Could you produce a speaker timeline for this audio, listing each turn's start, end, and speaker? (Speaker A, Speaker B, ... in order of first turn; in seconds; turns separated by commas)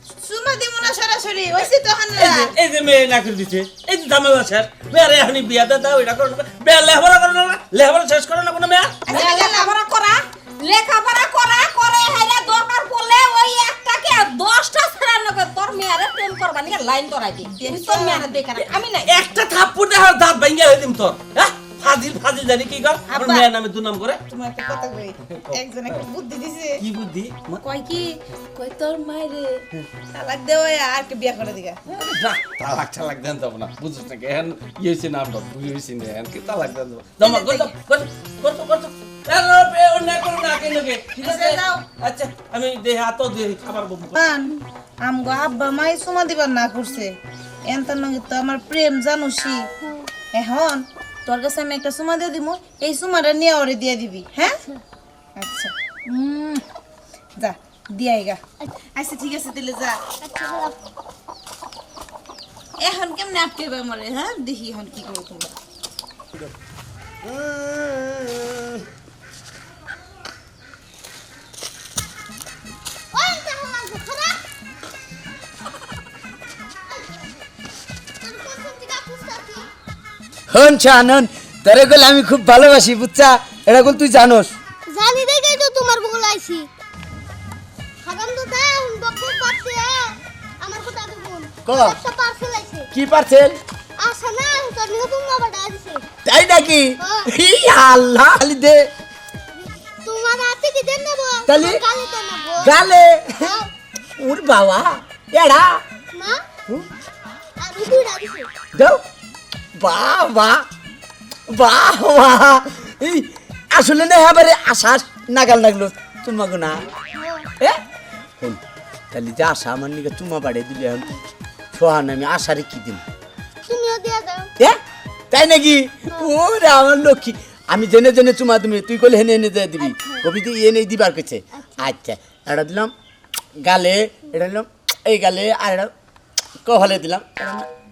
Speaker A: 0.2-2.5, Speaker B: 2.1-9.0, Speaker A: 9.1-9.8, Speaker C: 9.1-19.1, Speaker A: 17.4-18.3, Speaker B: 19.1-24.2, Speaker A: 23.1-23.5, Speaker A: 24.3-26.8, Speaker B: 25.2-26.1, Speaker B: 26.8-27.6, Speaker A: 27.6-31.8, Speaker B: 31.9-44.2, Speaker A: 37.2-37.7, Speaker A: 41.2-41.8, Speaker A: 44.2-49.7, Speaker A: 50.3-54.6, Speaker A: 55.4-56.6, Speaker A: 57.4-58.4, Speaker A: 59.0-60.0, Speaker D: 60.2-60.8, Speaker A: 62.8-65.5, Speaker B: 67.2-68.5, Speaker D: 73.1-74.4, Speaker D: 78.2-79.7, Speaker E: 80.5-84.5, Speaker D: 84.9-86.7, Speaker D: 88.0-92.9, Speaker E: 91.7-92.0, Speaker E: 92.9-93.6, Speaker D: 94.0-96.0, Speaker E: 96.2-98.9, Speaker D: 97.0-97.3, Speaker D: 99.5-102.8, Speaker E: 101.5-101.8, Speaker E: 102.6-103.6, Speaker D: 103.4-103.7, Speaker E: 104.2-105.8, Speaker D: 106.1-106.4, Speaker D: 107.6-108.5, Speaker E: 108.8-109.0, Speaker E: 109.8-110.7, Speaker E: 111.5-116.9, Speaker D: 117.1-117.5, Speaker E: 119.1-121.1, Speaker E: 121.7-123.0, Speaker D: 123.7-124.5, Speaker E: 125.3-132.9, Speaker D: 129.8-130.2, Speaker D: 131.6-131.9, Speaker E: 133.6-135.9, Speaker E: 136.7-137.7